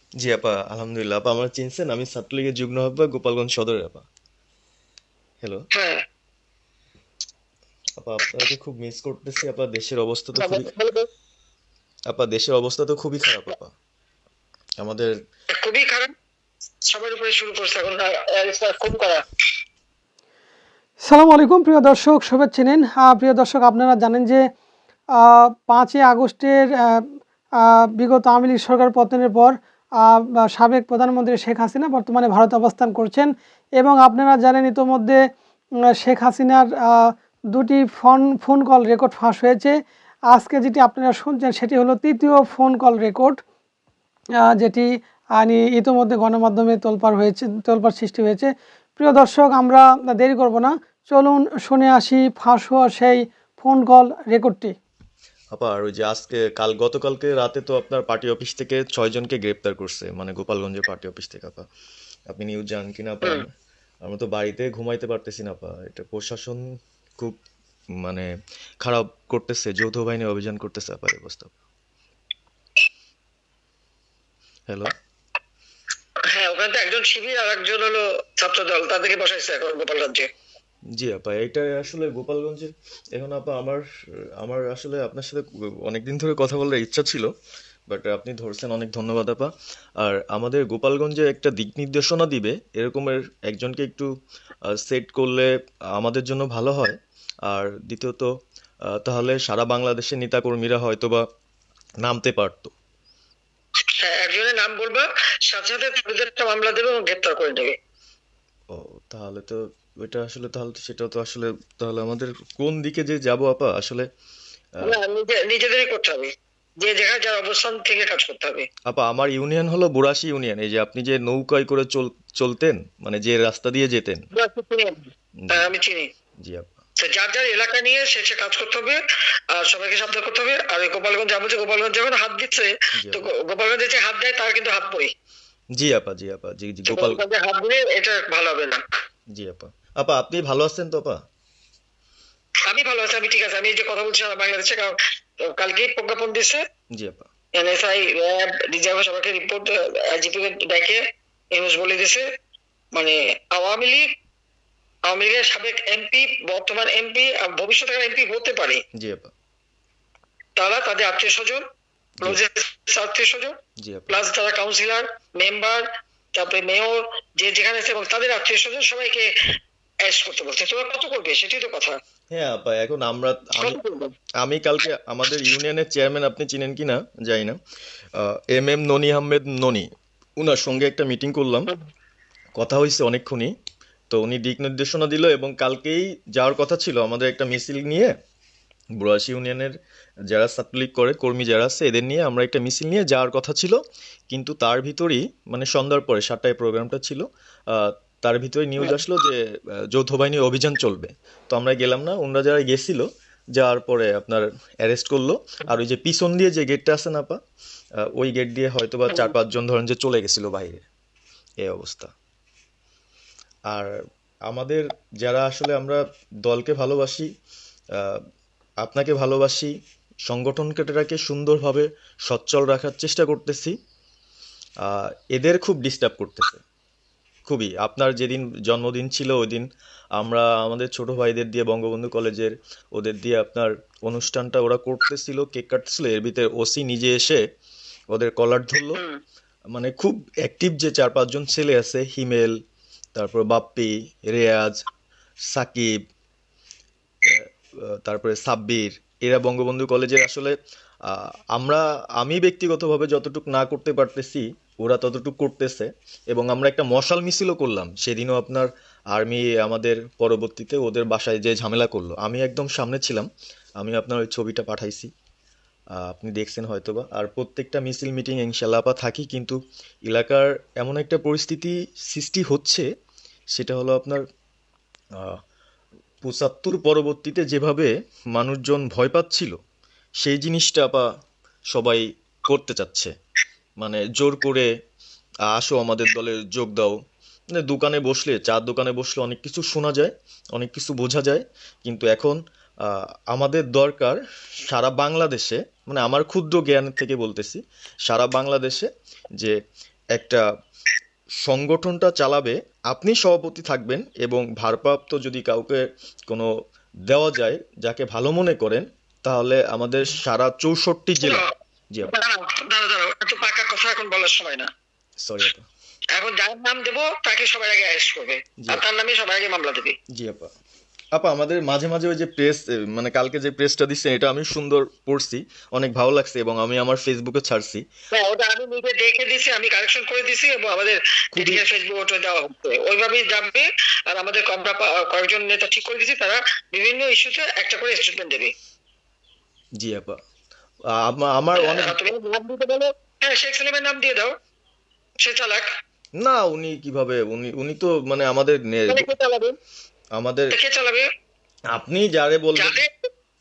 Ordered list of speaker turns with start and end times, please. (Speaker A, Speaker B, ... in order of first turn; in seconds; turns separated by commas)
Speaker A: 0.2-4.0, Speaker B: 5.7-6.0, Speaker A: 8.0-10.7, Speaker B: 10.4-11.1, Speaker A: 12.1-13.7, Speaker A: 14.8-15.1, Speaker B: 15.5-16.1, Speaker B: 16.9-19.2, Speaker C: 21.0-24.4, Speaker C: 25.2-27.0, Speaker C: 27.6-35.2, Speaker C: 36.0-37.0, Speaker C: 37.5-39.7, Speaker C: 40.3-43.4, Speaker C: 44.5-44.9, Speaker C: 45.4-54.7, Speaker A: 55.5-61.6, Speaker A: 62.3-63.5, Speaker A: 64.0-66.6, Speaker A: 68.0-68.3, Speaker A: 68.8-71.5, Speaker A: 74.7-74.9, Speaker B: 76.3-80.3, Speaker A: 81.0-83.8, Speaker A: 84.4-87.3, Speaker A: 87.9-89.5, Speaker A: 90.0-94.1, Speaker A: 94.8-97.0, Speaker A: 97.5-98.3, Speaker A: 98.9-101.2, Speaker A: 102.0-102.7, Speaker B: 104.0-107.8, Speaker A: 108.7-114.1, Speaker B: 114.8-118.7, Speaker A: 118.9-124.2, Speaker B: 124.3-126.1, Speaker A: 125.4-125.7, Speaker A: 126.4-126.7, Speaker B: 127.0-129.0, Speaker B: 129.5-135.1, Speaker A: 133.0-133.3, Speaker A: 135.8-137.2, Speaker B: 136.9-138.8, Speaker A: 139.3-141.2, Speaker B: 142.7-145.0, Speaker B: 145.5-146.6, Speaker A: 146.9-147.3, Speaker B: 147.6-151.0, Speaker B: 151.5-152.3, Speaker B: 152.9-154.1, Speaker B: 155.1-158.8, Speaker A: 159.0-159.3, Speaker B: 160.6-161.6, Speaker B: 162.2-163.6, Speaker A: 163.8-164.2, Speaker B: 164.1-169.3, Speaker B: 170.1-172.0, Speaker A: 172.3-173.8, Speaker B: 173.6-174.1, Speaker A: 174.4-177.6, Speaker A: 178.2-179.9, Speaker A: 180.4-181.7, Speaker A: 182.6-183.5, Speaker A: 184.1-188.1, Speaker A: 189.0-189.7, Speaker A: 190.3-193.8, Speaker A: 194.3-207.4, Speaker A: 208.2-210.8, Speaker A: 211.6-212.1, Speaker A: 214.5-217.3, Speaker A: 218.8-219.7, Speaker A: 220.3-223.8, Speaker A: 224.8-226.6, Speaker A: 227.5-229.7, Speaker A: 230.2-237.4, Speaker A: 238.1-239.0, Speaker A: 239.7-242.5, Speaker A: 243.2-244.8, Speaker A: 245.5-245.9, Speaker A: 248.0-250.6, Speaker A: 251.1-263.3, Speaker A: 263.8-265.1, Speaker A: 266.0-272.9, Speaker A: 273.6-274.2, Speaker A: 276.2-279.6, Speaker A: 280.2-281.1, Speaker A: 281.7-283.1, Speaker A: 283.8-284.7, Speaker A: 285.5-286.9, Speaker A: 287.6-299.6, Speaker A: 300.1-300.4, Speaker A: 301.4-306.5, Speaker A: 307.1-312.1, Speaker B: 311.2-311.5, Speaker B: 312.1-314.7, Speaker A: 315.2-315.6, Speaker B: 316.1-320.0, Speaker A: 320.1-320.5, Speaker A: 321.1-327.8, Speaker B: 328.1-338.5, Speaker A: 331.3-331.6, Speaker A: 339.8-340.2, Speaker A: 341.0-342.0, Speaker B: 341.6-344.3, Speaker B: 345.2-345.6, Speaker A: 346.2-349.1, Speaker B: 348.9-349.6, Speaker A: 350.2-350.5, Speaker B: 350.5-351.1, Speaker A: 351.7-352.8, Speaker B: 352.6-352.9